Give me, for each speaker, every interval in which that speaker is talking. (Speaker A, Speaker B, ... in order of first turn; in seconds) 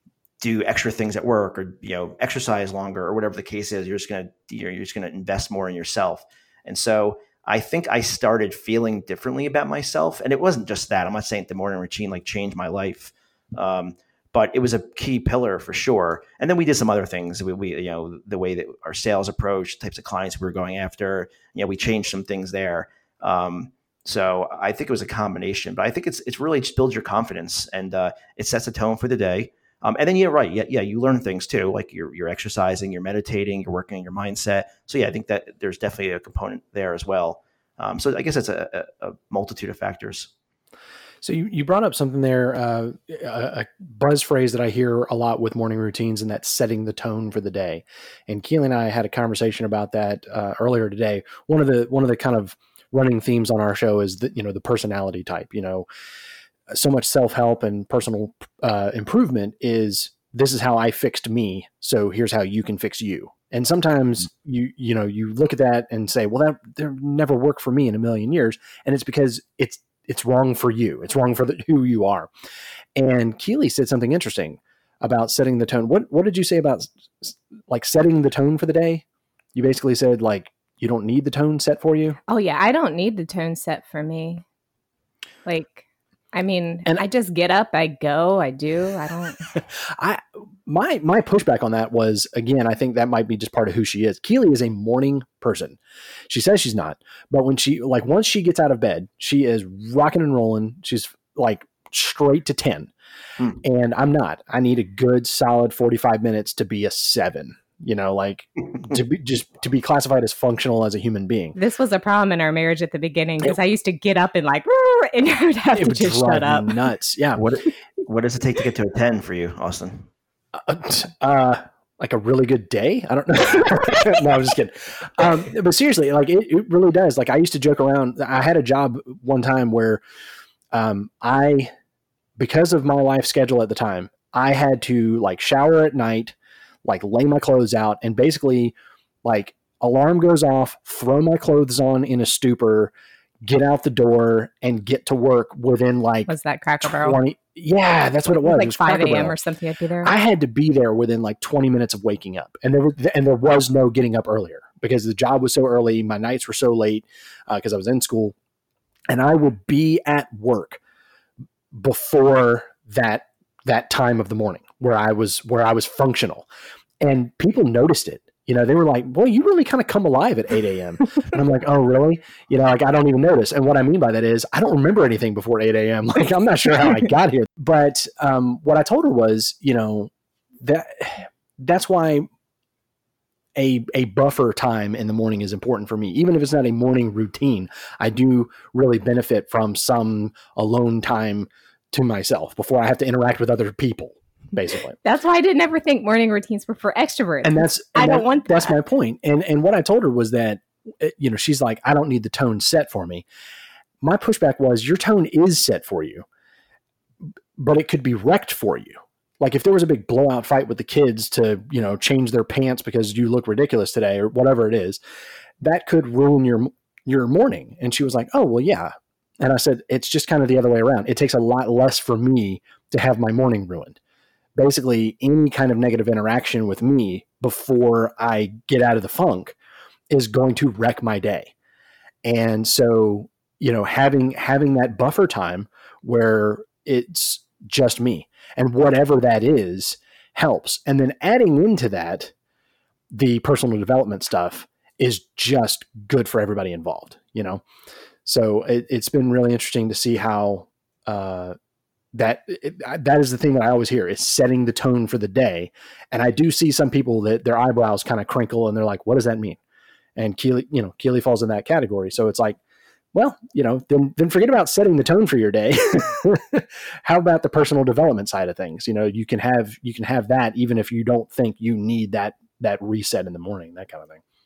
Speaker A: 0.4-40.3, 117.4-120.1
Speaker B: 41.2-55.9, 56.7-72.3, 73.0-79.0, 79.5-82.2, 89.6-102.9, 103.6-111.6, 115.7-117.4, 120.5-130.0, 130.7-131.7, 132.4-146.3, 146.8-149.3, 150.0-158.3, 159.1-160.8, 161.7-166.5, 167.0-180.1, 180.6-182.3, 183.6-195.0, 197.4-203.2, 204.0-206.2, 207.6-215.0, 215.6-224.0, 224.6-229.6, 230.1-231.5, 232.2-242.3, 243.1-247.6, 248.2-251.6, 252.1-259.6, 260.2-262.6, 263.1-274.2
Speaker C: 82.3-84.4, 85.5-89.5, 111.6-116.8, 146.3-147.2, 148.4-150.1, 195.0-198.8